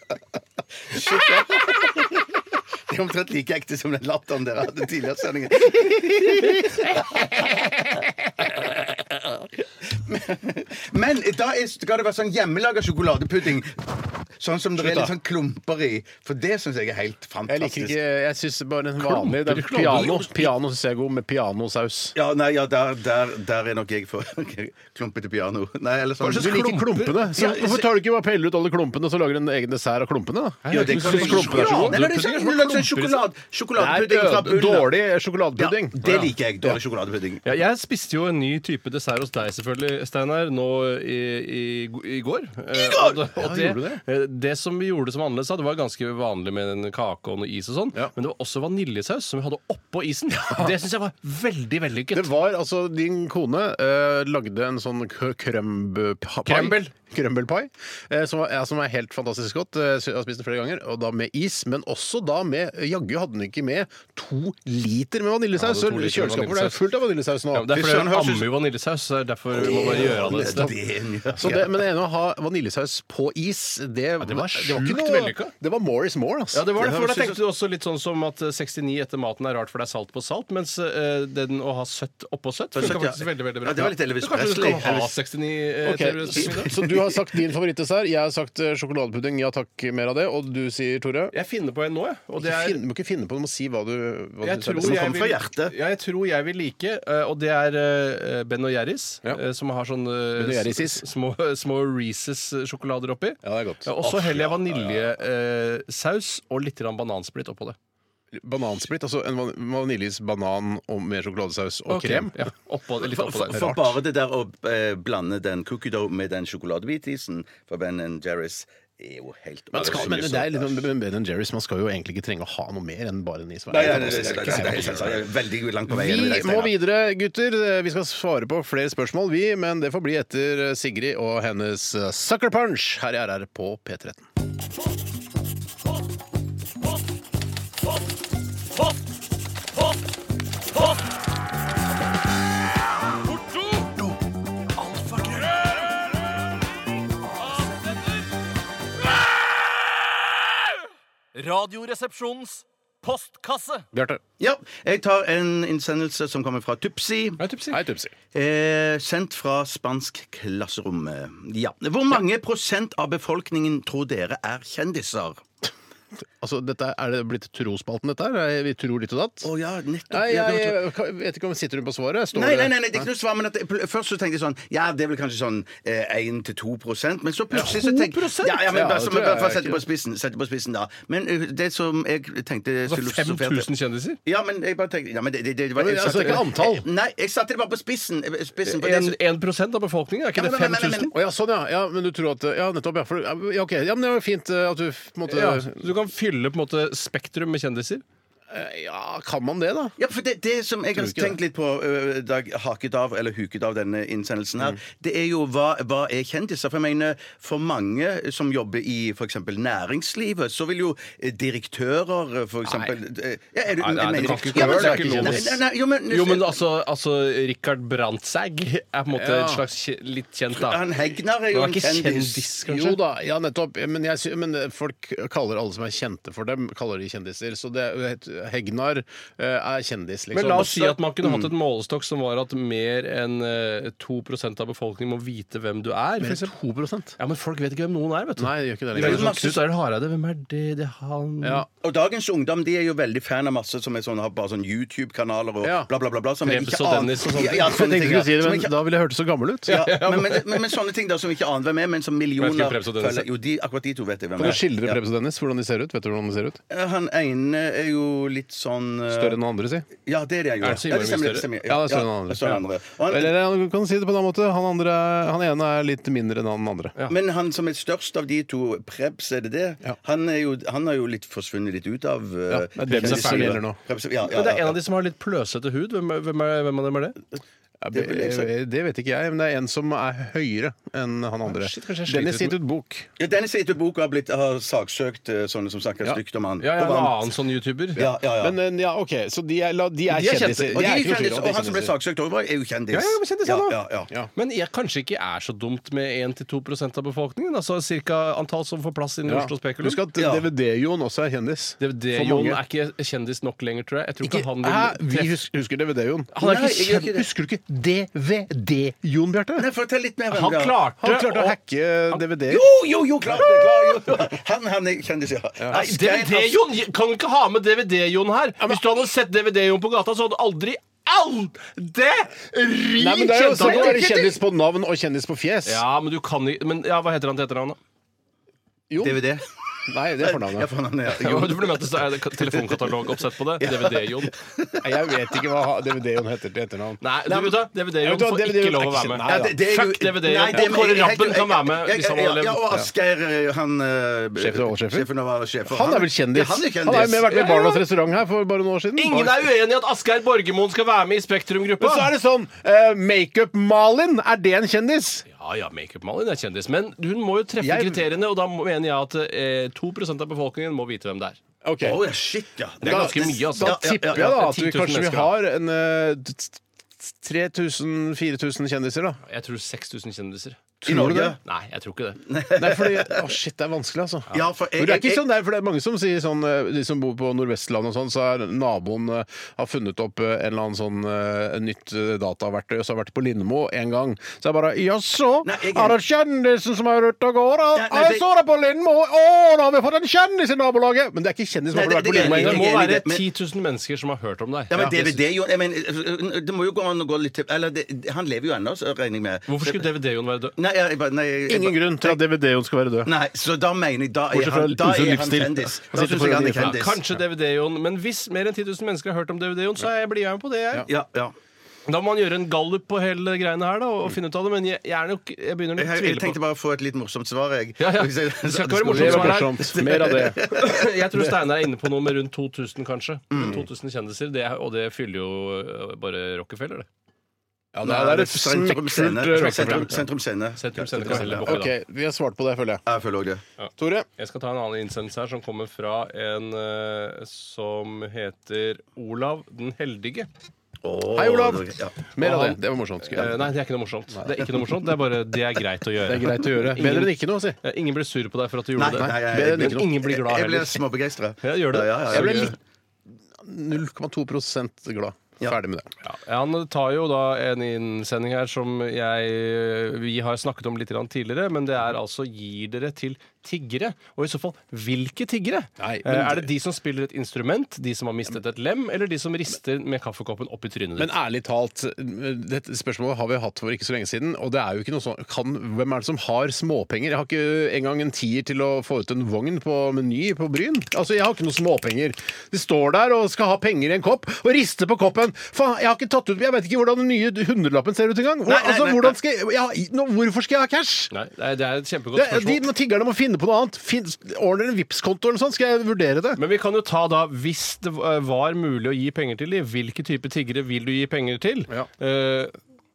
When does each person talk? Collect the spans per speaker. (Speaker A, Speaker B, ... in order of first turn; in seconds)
Speaker A: 0.9-2.4, 2.9-7.7, 8.4-9.3, 9.8-18.0, 19.9-20.2, 22.1-27.9, 30.7-35.0, 35.6-37.4, 42.7-43.2, 67.7-68.5, 69.5-71.7, 76.8-77.4, 82.8-85.2, 86.4-87.2, 94.8-95.7, 104.0-105.0, 113.4-120.9, 123.7-126.7, 154.4-157.4, 158.3-165.4, 169.4-170.8, 172.3-183.7, 184.2-189.2, 190.3-191.1, 200.0-216.6, 220.5-222.5, 230.6-231.5, 239.0-239.6, 241.8-248.8, 249.7-255.0, 256.7-259.4, 260.1-263.3, 267.1-274.8, 277.9-278.5, 283.2-287.3, 288.0-288.6, 290.6-294.1, 300.2-300.5, 306.4-307.3, 309.6-310.8, 312.5-316.6, 323.6-324.1, 329.0-329.5, 330.2-332.9, 333.6-335.1, 339.2-347.7, 349.1-349.4, 361.8-364.4, 370.9-371.4, 372.3-373.3, 374.3-375.3, 385.4-386.0, 387.8-388.2, 391.7-393.2, 394.7-399.8, 400.6-402.2, 403.1-407.0, 410.9-411.3, 415.8-420.9, 423.3-423.6, 427.8-431.6, 432.9-433.4, 440.8-442.1, 448.8-452.6, 488.5-489.2
Speaker B: 6.4-8.1, 14.8-15.1, 17.5-22.1, 26.2-32.0, 33.8-36.1, 43.3-44.0, 50.4-50.7, 52.1-67.8, 69.7-70.8, 71.4-76.7, 85.8-91.3, 92.4-95.1, 100.4-101.0, 103.4-104.0, 108.3-112.5, 113.3-114.0, 119.7-125.3, 125.9-134.3, 153.9-154.2, 157.7-158.1, 166.4-169.5, 170.1-173.1, 178.7-179.8, 185.8-186.8, 191.1-195.8, 198.5-200.0, 200.9-201.4, 214.2-215.6, 219.1-219.6, 222.7-230.9, 236.2-237.2, 238.4-239.4, 241.4-241.7, 245.6-245.9, 247.5-249.9, 254.4-256.6, 259.1-259.9, 261.6-266.9, 272.5-273.8, 277.8-283.1, 288.0-291.9, 299.3-302.6, 304.2-309.7, 311.0-312.6, 323.0-325.8, 328.9-329.3, 329.9-330.7, 334.8-337.0, 338.0-339.6, 344.4-345.1, 345.7-349.2, 351.8-355.3, 357.6-358.0, 361.6-362.0, 362.8-369.2, 370.8-371.4, 372.6-392.7, 401.5-403.1, 404.3-406.9, 418.9-420.5, 427.7-430.0, 431.0-432.8, 433.8-434.1, 441.1-443.5, 446.1-447.6, 448.9-450.0, 452.1-452.6, 453.4-455.9, 465.8-466.5, 471.0-491.1, 492.1-496.4
Speaker C: 19.0-20.5, 26.4-27.2, 30.6-33.2, 36.0-36.3, 37.4-52.3, 56.5-56.8, 65.6-66.8, 67.5-70.7, 74.2-75.5, 76.5-86.8, 91.3-92.8, 94.4-107.8, 111.9-113.6, 143.5-143.9, 144.8-145.8, 147.6-148.0, 151.3-153.9, 157.4-157.8, 177.5-178.7, 182.9-184.2, 188.6-191.1, 195.3-198.0, 213.8-215.6, 216.1-220.9, 221.5-223.0, 230.3-236.5, 237.2-241.7, 246.4-247.7, 249.7-250.7, 252.4-253.3, 260.6-261.5, 272.9-273.6, 274.3-277.2, 281.5-282.6, 286.6-288.1, 290.1-290.7, 292.9-293.8, 294.4-300.0, 301.8-305.4, 306.4-306.7, 310.3-311.6, 313.4-314.0, 315.7-324.4, 325.7-327.8, 331.1-334.4, 337.0-342.6, 347.3-347.8, 349.0-352.1, 355.3-361.4, 362.8-365.3, 369.2-370.7, 371.4-372.2, 392.1-395.2, 399.5-400.6, 406.6-410.9, 411.9-416.4, 417.8-419.8, 420.4-426.9, 429.3-430.1, 430.6-431.7, 433.6-440.3, 442.2-450.8, 451.4-452.6, 456.0-471.1, 491.1-492.6, 496.4-502.6